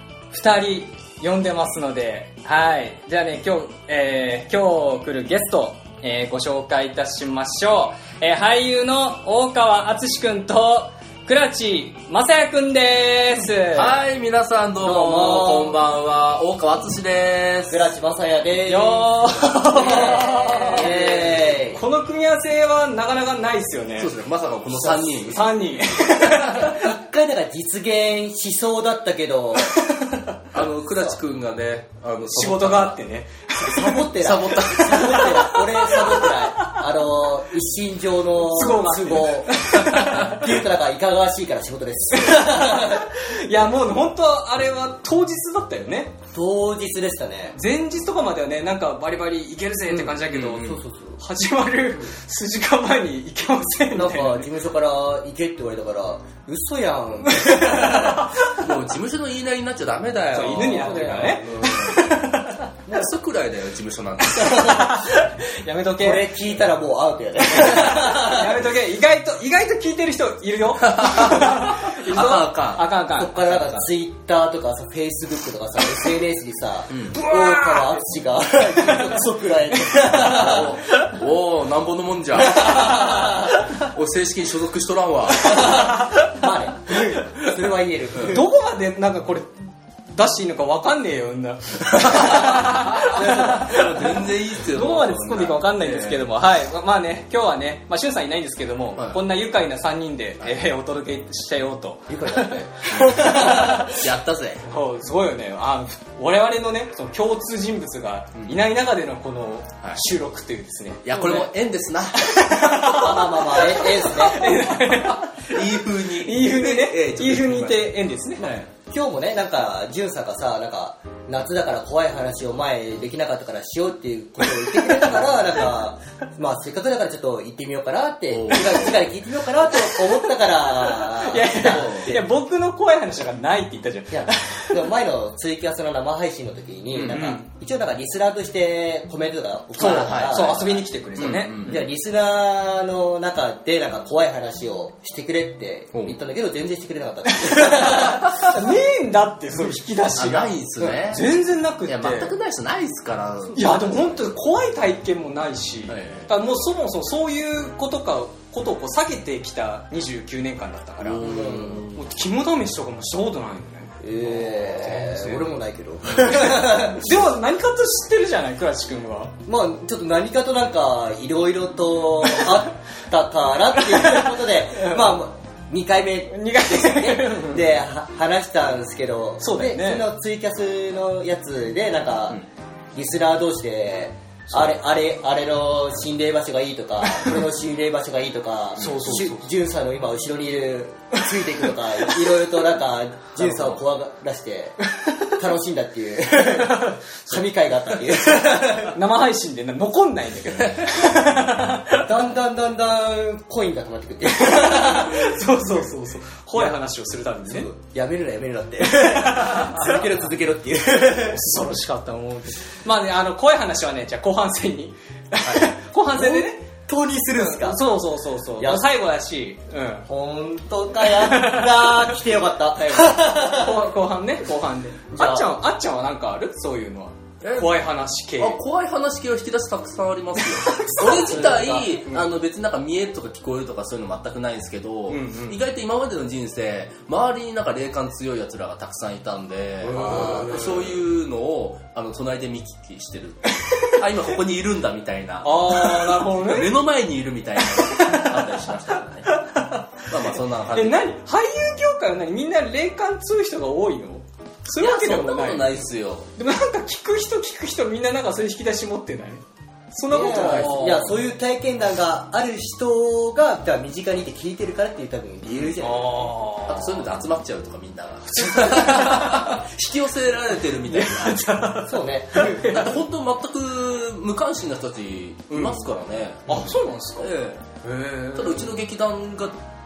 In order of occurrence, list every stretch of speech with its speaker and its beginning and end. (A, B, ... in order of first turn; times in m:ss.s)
0:00.3-0:14.0 A
0:13.7-0:17.8 B
0:14.8-0:15.8 C
0:17.7-0:21.8 C
0:18.7-0:24.1 A
0:24.0-0:25.5 B
0:24.7-0:27.0 A
0:26.5-0:29.9 C
0:29.8-0:30.4 A
0:30.5-0:33.0 B
0:32.3-0:34.1 A
0:33.6-0:43.1 C
0:34.2-0:35.6 B
0:34.9-0:36.8 A
0:38.4-0:40.5 A
0:42.2-0:46.2 A
0:46.3-0:47.6 C
0:47.6-0:54.5 A
0:49.9-0:51.2 C
0:50.3-0:50.8 B
0:53.9-0:58.3 C
0:57.3-0:58.6 A
0:58.4-1:02.1 B
1:00.3-1:02.7 A
1:00.8-1:01.8 C
1:02.9-1:04.9 B
1:04.3-1:06.3 A
1:04.5-1:04.8 C
1:06.0-1:08.6 C
1:07.4-1:13.8 A
1:10.8-1:12.9 B
1:13.1-1:20.8 C
1:16.9-1:17.2 B
1:17.2-1:17.9 A
1:18.8-1:19.2 A
1:20.2-1:25.9 B
1:22.4-1:23.5 C
1:25.4-1:28.4 C
1:25.5-1:26.4 A
1:28.1-1:28.4 B
1:28.3-1:44.0 A
1:31.9-1:36.3 B
1:33.1-1:33.6 C
1:39.0-1:39.2 B
1:42.1-1:43.9 C
1:42.9-1:44.6 B
1:44.6-1:51.5 A
1:51.0-1:52.7 B
1:52.1-1:58.5 A
1:52.8-1:54.6 C
1:54.6-1:58.7 B
1:58.7-2:12.2 C
2:08.3-2:09.1 B
2:09.8-2:14.9 A
2:11.6-2:12.2 B
2:14.1-2:20.8 C
2:16.9-2:17.4 A
2:17.0-2:17.3 B
2:19.8-2:21.7 A
2:19.8-2:21.8 B
2:21.6-2:28.4 C
2:27.3-2:32.4 A
2:30.2-2:34.2 B
2:33.5-2:45.5 A
2:35.9-2:36.3 B
2:41.0-2:42.0 B
2:41.2-2:41.9 C
2:44.0-2:47.3 C
2:46.1-2:49.3 A
2:49.5-3:02.4 C
2:53.7-2:55.2 A
2:56.3-2:57.8 A
2:59.4-3:00.1 A
3:02.9-3:19.0 C
3:08.8-3:09.5 A
3:08.8-3:09.2 B
3:13.4-3:13.8 B
3:15.0-3:15.3 A
3:16.6-3:17.0 A
3:18.4-3:22.1 A
3:22.0-3:25.4 C
3:24.3-3:27.7 A
3:26.5-3:26.8 C
3:27.4-3:31.4 C
3:28.9-3:30.0 A
3:31.1-3:36.6 A
3:36.1-3:37.8 C
3:37.3-3:40.1 A
3:38.6-3:38.9 C
3:40.1-3:43.8 C
3:41.0-3:42.1 A
3:42.8-3:48.6 A
3:45.1-3:45.5 C
3:47.4-4:09.4 B
3:50.4-3:52.2 A
3:51.0-3:52.0 C
3:55.1-3:55.6 A
3:59.8-4:00.8 A
4:00.0-4:00.5 C
4:03.6-4:04.0 A
4:05.4-4:06.7 A
4:07.6-4:10.1 A
4:10.0-4:11.0 B
4:10.7-4:15.7 A
4:14.8-4:16.3 B
4:16.4-4:21.2 A
4:20.1-4:26.3 C
4:20.5-4:21.0 B
4:25.5-4:25.8 B
4:25.8-4:27.1 A
4:26.6-4:31.4 B
4:28.3-4:29.7 A
4:30.9-4:33.0 A
4:31.8-4:32.7 C
4:32.6-4:37.7 B
4:35.5-4:35.8 A
4:36.5-4:37.3 A
4:37.8-4:38.7 A
4:38.3-4:39.6 B